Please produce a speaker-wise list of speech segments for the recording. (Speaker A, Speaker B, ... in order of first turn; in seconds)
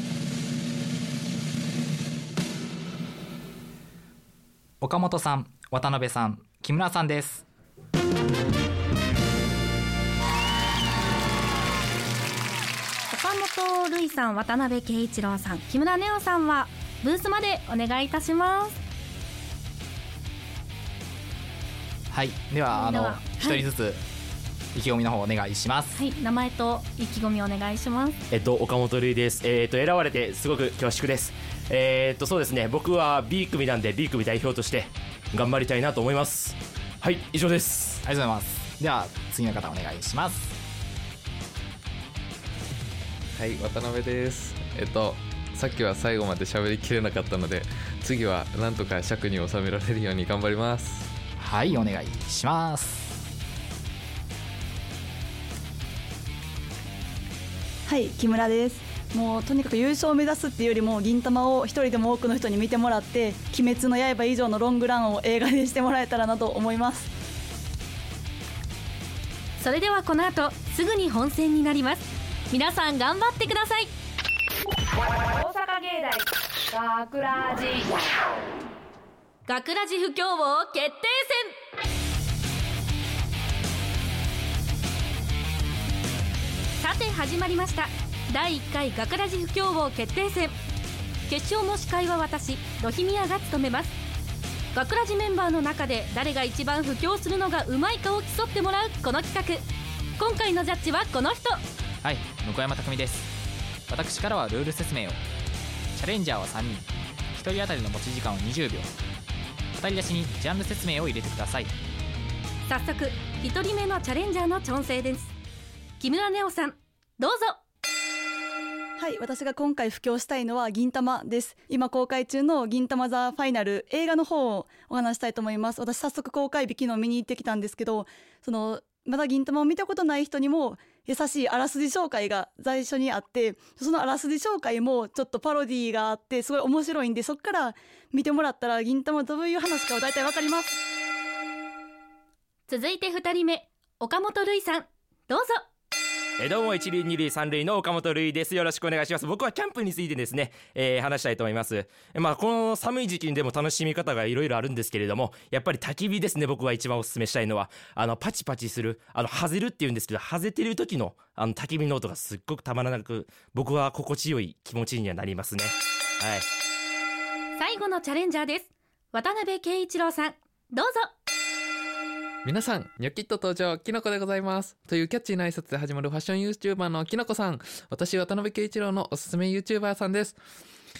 Speaker A: 4.8-7.4, 22.1-24.0, 24.7-26.0, 38.0-40.6, 51.4-53.2, 102.0-103.3, 103.9-105.2, 105.9-108.9, 109.8-111.7
Speaker B: 13.1-18.8, 22.7-23.6, 25.9-28.2, 69.6-73.9, 79.5-81.5, 86.8-90.5, 91.3-93.9, 94.7-99.6, 100.2-101.6, 112.7-115.3, 116.0-117.6, 142.7-145.6, 167.6-171.1
Speaker C: 28.3-38.0, 146.4-166.4
Speaker D: 43.3-51.1, 172.4-180.4
Speaker E: 57.9-67.1, 119.0-140.8
Speaker F: 75.4-76.2, 76.7-77.9